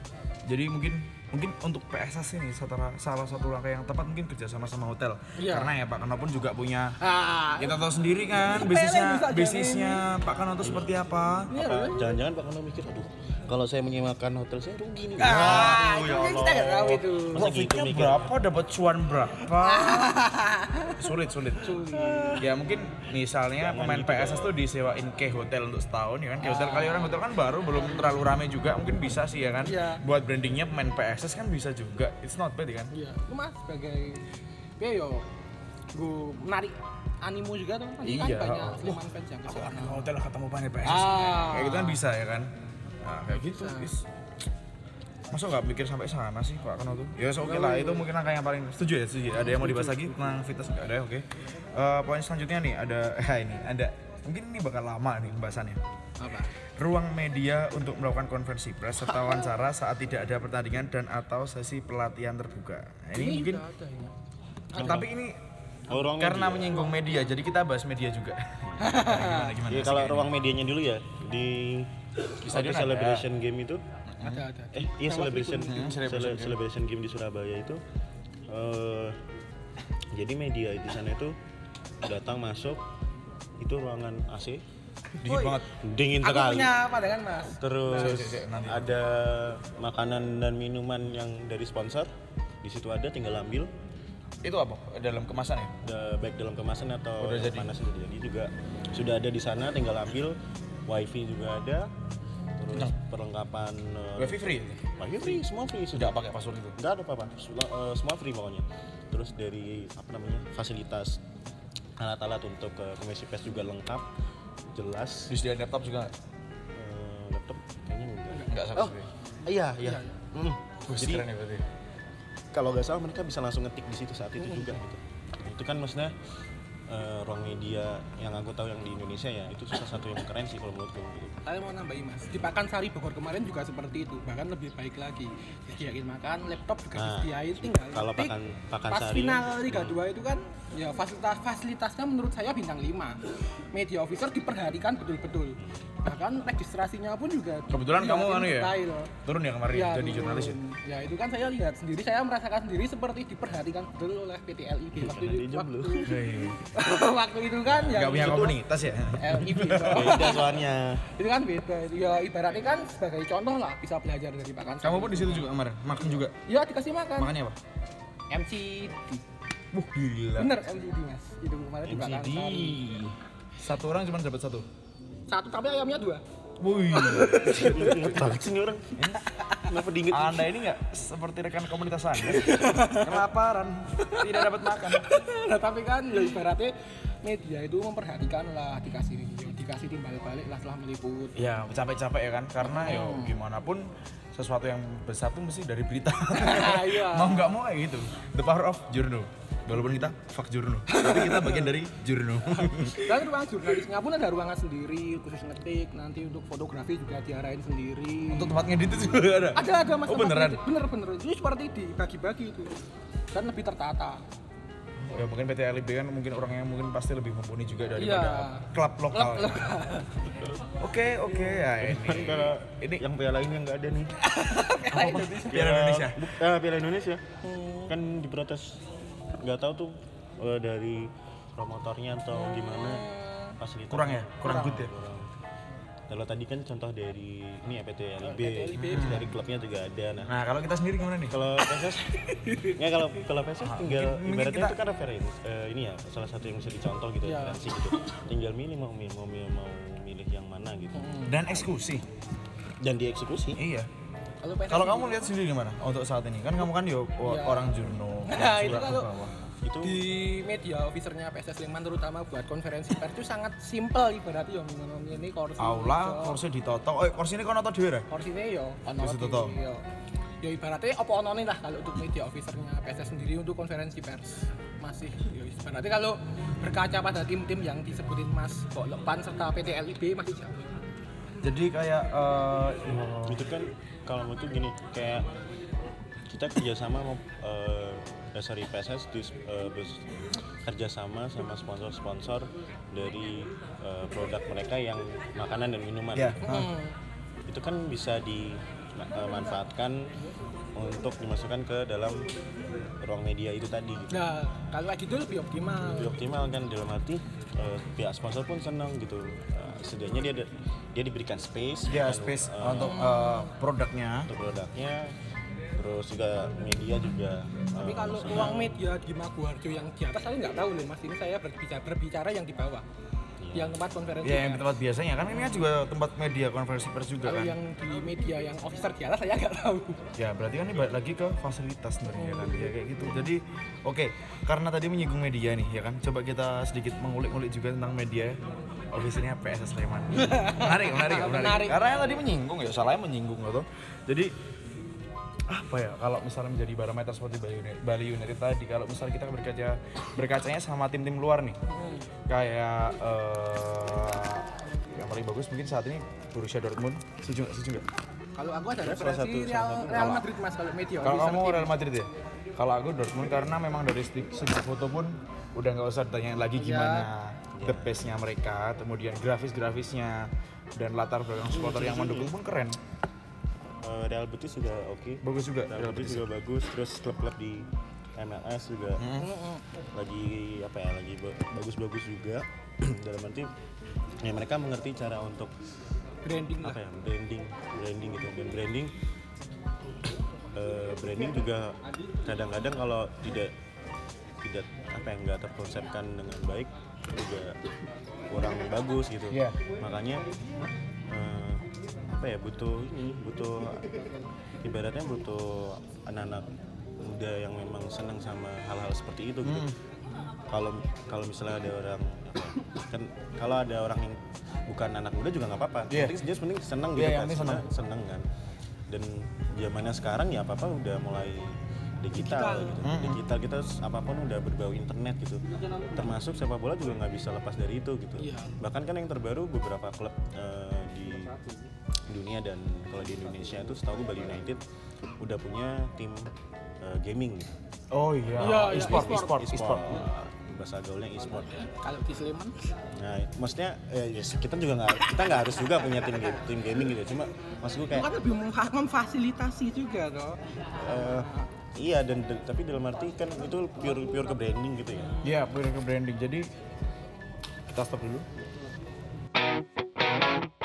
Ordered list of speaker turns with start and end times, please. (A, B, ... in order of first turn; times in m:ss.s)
0:00.4-0:07.0 A
0:05.4-0:05.7 B
0:07.0-0:07.8 B
0:07.5-0:11.5 A
0:08.4-0:10.0 B
0:10.6-0:10.9 C
0:11.5-0:12.1 B
0:11.5-0:18.3 C
0:15.2-0:17.5 B
0:15.3-0:15.8 A
0:17.3-0:20.1 A
0:19.6-0:21.0 B
0:21.0-0:21.8 A
0:21.6-0:22.4 B
0:21.9-0:22.4 C
0:22.4-0:32.9 A
0:23.6-0:24.5 C
0:26.4-0:28.2 B
0:29.6-0:30.0 B
0:32.9-0:34.2 B
0:34.8-0:35.2 B
0:35.9-0:40.1 B
0:38.0-0:42.5 A
0:40.8-0:42.0 B
0:43.0-0:44.0 A
0:43.3-0:43.9 B
0:45.3-0:55.8 A
0:47.4-0:48.1 B
0:49.4-0:50.0 B
0:56.2-0:56.5 B
0:56.8-1:03.6 A
1:03.1-1:04.1 B
1:04.7-1:05.0 B
1:04.7-1:05.4 A
1:05.9-1:06.9 C
1:05.9-1:10.4 A
1:08.8-1:09.5 B
1:09.7-1:13.8 C
1:12.4-1:13.2 A
1:14.1-1:14.4 A
1:14.2-1:16.0 B
1:14.7-1:17.8 C
1:15.6-1:16.6 A
1:18.5-1:19.2 C
1:20.1-1:21.3 C
1:22.0-1:22.8 C
1:23.6-1:24.6 C
1:25.2-1:25.7 A
1:25.2-1:25.6 B
1:25.7-1:26.8 C
1:26.2-1:28.2 B
1:27.6-1:32.1 C
1:27.9-1:28.9 A
1:32.6-1:33.7 C
1:34.4-1:35.7 A
1:35.8-1:41.9 C
1:37.2-1:37.7 A
1:42.6-1:46.2 C
1:44.2-1:44.8 A
1:45.9-1:46.8 A
1:46.8-1:51.2 C
1:52.0-1:54.0 C
1:54.7-1:55.3 C
1:55.3-1:56.1 A
1:56.7-2:01.3 C
1:58.5-1:59.1 A
1:59.8-2:00.2 B
2:00.9-2:01.6 A
2:02.5-2:06.1 C
2:06.9-2:11.4 C
2:11.4-2:18.3 B
2:17.0-2:20.0 C
2:18.9-2:29.1 B
2:27.7-2:30.6 A
2:29.7-2:38.6 B
2:35.0-2:36.2 C
2:36.0-2:36.6 A
2:37.7-2:38.5 C
2:37.8-2:40.3 A
2:39.2-2:45.5 B
2:39.9-2:41.0 C
2:44.8-2:46.3 A
2:46.4-2:47.3 B
2:47.2-2:47.6 A
2:48.3-2:49.2 B
2:49.7-2:50.5 A
2:50.4-2:52.8 B
2:51.9-2:54.6 A
2:55.3-2:56.2 B
2:56.6-2:58.2 A
2:56.9-2:58.1 B
2:57.4-3:00.5 C
2:59.3-2:59.6 B
3:00.1-3:05.0 A
3:02.2-3:03.2 B
3:04.0-3:11.5 B
3:11.4-3:23.2 A
3:12.6-3:13.4 B
3:16.3-3:17.6 B
3:20.9-3:21.7 B
3:22.5-3:28.7 B
3:28.3-3:30.6 A
3:29.5-3:32.7 B
3:33.3-3:34.2 B
3:35.0-3:39.7 A
3:38.0-3:40.3 B
3:40.8-3:43.0 A
3:41.8-3:44.1 C
3:44.2-3:45.6 B
3:44.8-3:46.3 A
3:45.5-3:47.2 C
3:47.4-3:47.9 B
3:47.9-3:48.8 C
3:49.4-3:55.3 C
3:52.3-3:53.6 B
3:53.9-3:54.9 A
3:54.4-3:54.8 B
3:56.1-4:00.3 C
3:58.2-3:59.3 B
3:58.8-3:59.3 A
4:00.2-4:01.4 A
4:01.3-4:11.1 C
4:02.4-4:02.8 B
4:03.6-4:04.8 A
4:07.2-4:07.6 B
4:10.9-4:11.6 B
4:11.2-4:12.0 A
4:12.8-4:13.6 C
4:13.6-4:13.9 A
4:14.4-4:15.3 B
4:14.7-4:19.3 A
4:17.2-4:17.7 B
4:18.2-4:19.1 B
4:19.6-4:20.0 C
4:19.8-4:26.4 B
4:25.6-4:28.1 A
4:28.1-4:29.8 B
4:29.0-4:29.6 A
4:30.4-4:40.6 B
4:41.4-4:43.5 A
4:43.2-4:45.3 C
4:46.3-4:56.6 C
4:56.1-4:56.7 A
4:56.4-4:56.9 B
4:57.5-5:00.1 C
5:00.7-5:02.3 C
5:03.0-5:04.3 C
5:04.1-5:06.1 B
5:05.8-5:12.9 C
5:11.9-5:14.3 A
5:12.7-5:13.5 B
5:14.3-5:15.1 C
5:15.8-5:18.7 C
5:17.8-5:22.8 B
5:23.4-5:23.8 C
5:23.5-5:24.8 B
5:24.2-5:27.6 A
5:25.3-5:25.7 B
5:27.2-5:30.0 B
5:30.2-5:38.4 A
5:32.1-5:32.7 B
5:38.9-5:44.3 A
5:40.1-5:42.2 B
5:45.5-5:51.6 A
5:51.7-5:52.1 B
5:52.3-5:57.8 A
5:58.4-6:01.7 B
5:58.8-6:00.2 C
5:59.9-6:00.3 A
6:01.0-6:12.8 A
6:06.6-6:07.1 B
6:07.5-6:08.0 C
6:11.6-6:12.3 C
6:13.8-6:19.1 C
6:15.2-6:16.3 A
6:19.0-6:19.3 A
6:19.2-6:19.6 B
6:19.9-6:23.5 C
6:24.2-6:25.5 C
6:26.2-6:26.8 B
6:26.6-6:28.9 C
6:30.5-6:33.5 C
6:34.4-6:37.6 C
6:38.3-6:40.2 C
6:39.3-6:39.6 A
6:41.1-6:44.1 C
6:44.6-6:46.5 C
6:47.0-6:49.7 C
6:49.4-6:49.7 A
6:50.5-6:58.2 C
6:56.9-6:57.6 A
6:58.9-7:11.3 C
7:02.2-7:02.8 B
7:02.8-7:03.2 A
7:08.2-7:08.5 B
7:12.1-7:14.6 C
7:15.2-7:16.3 C
7:16.8-7:17.5 C
7:17.9-7:20.0 A
7:18.4-7:19.4 B
7:18.7-7:21.5 C
7:21.5-7:22.7 B
7:23.0-7:28.1 C
7:27.9-7:31.5 B
7:30.8-7:35.2 C
7:35.2-7:36.4 A
7:37.7-7:38.2 A